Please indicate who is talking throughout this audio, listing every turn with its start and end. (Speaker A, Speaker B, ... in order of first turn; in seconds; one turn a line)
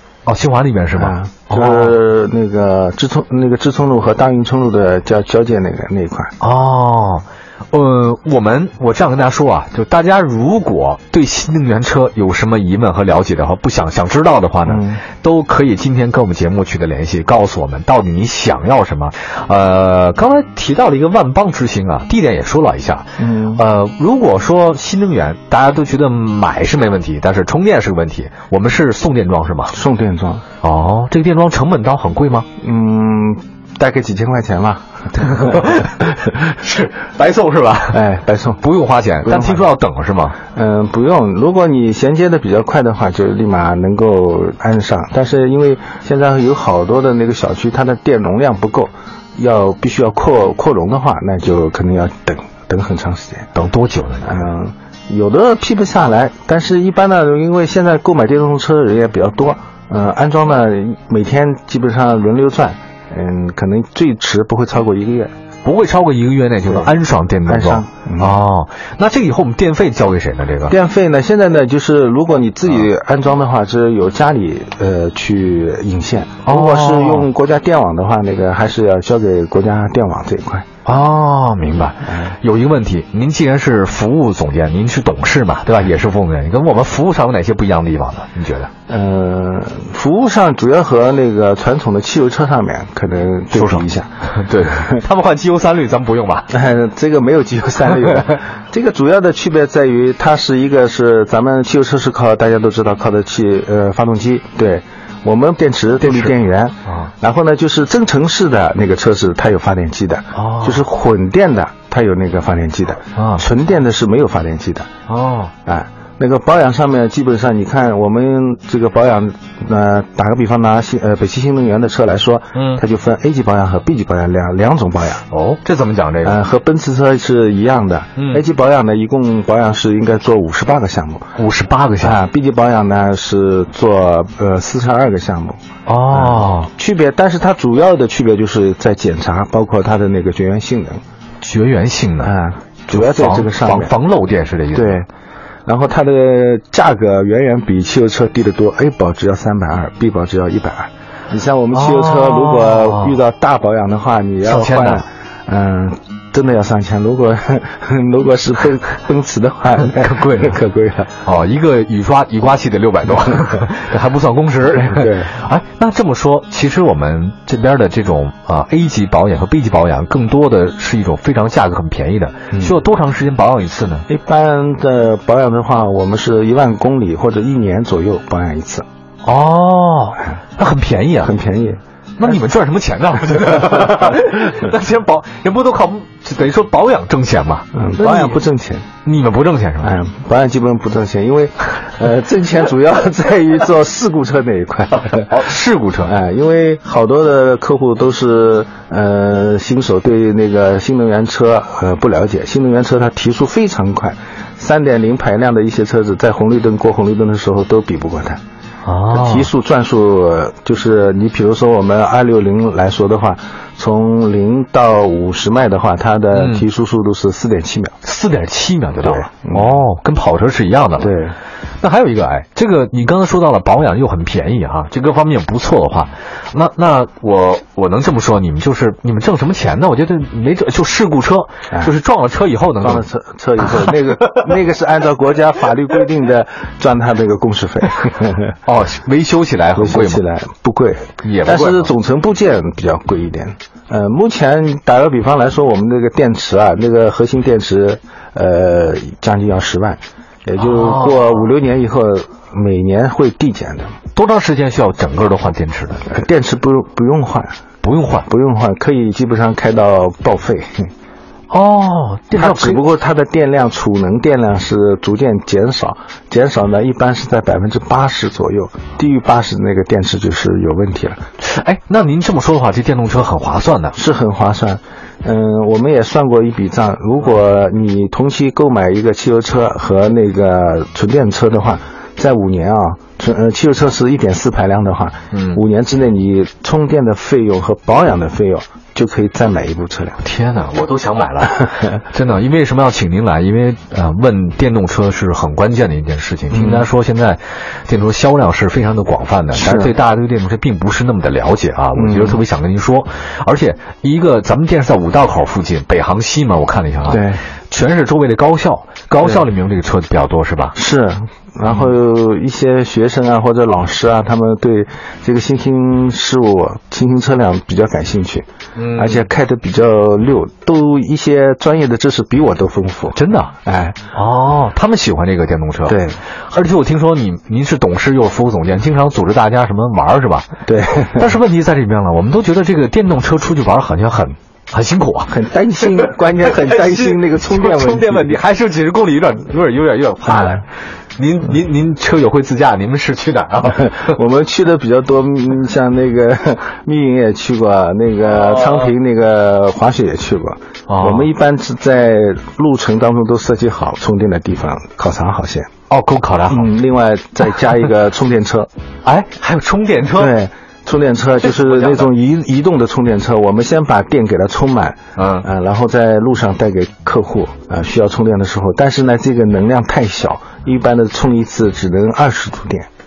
Speaker A: 0.2-1.9
Speaker B: 0.9-6.3
Speaker A: 6.4-29.8
Speaker B: 14.7-15.0
Speaker B: 23.2-23.6
Speaker B: 29.7-30.4
Speaker A: 30.6-32.5
Speaker B: 32.6-35.8
Speaker A: 35.1-38.0
Speaker B: 37.9-38.6
Speaker A: 38.6-40.4
Speaker B: 39.2-39.7
Speaker B: 40.5-53.5
Speaker A: 53.5-54.5
Speaker B: 54.2-65.3
Speaker A: 65.6-70.7
Speaker B: 66.7-66.9
Speaker B: 67.5-68.4
Speaker B: 70.7-80.7
Speaker A: 76.4-77.3
Speaker A: 80.8-88.7
Speaker B: 82.0-82.3
Speaker B: 88.9-94.1
Speaker A: 93.5-96.5
Speaker B: 94.6-95.0
Speaker B: 96.5-114.9
Speaker A: 106.0-106.3
Speaker A: 110.3-110.8
Speaker A: 113.2-113.4
Speaker A: 115.1-115.5
Speaker B: 115.7-125.2
Speaker A: 122.5-122.8
Speaker A: 125.3-126.4
Speaker B: 126.2-131.3
Speaker A: 128.2-128.4
Speaker A: 131.3-132.2
Speaker B: 132.0-135.6
Speaker A: 135.8-136.7
Speaker B: 136.1-141.0
Speaker A: 141.4-142.3
Speaker B: 142.2-143.9
Speaker A: 142.9-145.0
Speaker B: 144.7-145.1
Speaker B: 145.7-161.1
Speaker A: 151.7-153.2
Speaker A: 154.4-155.0
Speaker A: 159.8-160.6
Speaker A: 161.2-174.1
Speaker B: 164.8-165.3
Speaker B: 174.1-178.8
Speaker A: 179.2-181.3
Speaker B: 181.2-181.8
Speaker A: 182.2-188.4
Speaker B: 187.7-188.8
Speaker A: 189.0-189.9
Speaker B: 189.8-195.5
Speaker A: 195.2-196.1
Speaker B: 196.0-208.4
Speaker A: 208.8-209.5
Speaker B: 209.1-217.9
Speaker A: 216.3-216.6
Speaker A: 218.0-221.1
Speaker B: 219.0-219.8
Speaker B: 221.0-221.3
Speaker A: 221.8-233.0
Speaker B: 232.8-238.5
Speaker A: 233.6-234.3
Speaker A: 238.7-240.2
Speaker B: 239.7-253.9
Speaker A: 241.2-241.9
Speaker A: 250.6-251.5
Speaker A: 254.1-256.1
Speaker B: 256.0-257.5
Speaker A: 257.8-258.3
Speaker B: 258.2-260.9
Speaker A: 261.5-262.8
Speaker B: 262.3-271.2
Speaker A: 271.4-273.9
Speaker B: 273.9-290.2
Speaker A: 285.3-285.6
Speaker A: 290.2-310.8
Speaker B: 296.5-296.9
Speaker B: 299.6-299.9
Speaker B: 301.9-302.4
Speaker B: 307.1-307.4
Speaker B: 310.8-324.0
Speaker A: 318.8-319.3
Speaker A: 323.1-323.5
Speaker A: 324.1-326.0
Speaker B: 325.9-326.2
Speaker A: 326.5-330.6
Speaker B: 330.6-331.3
Speaker A: 331.1-344.1
Speaker B: 335.3-338.4
Speaker B: 343.7-355.7
Speaker A: 348.3-348.9
Speaker A: 350.9-351.3
Speaker A: 355.9-356.7
Speaker B: 356.5-358.7
Speaker A: 359.0-360.3
Speaker B: 360.1-372.9
Speaker A: 365.2-365.4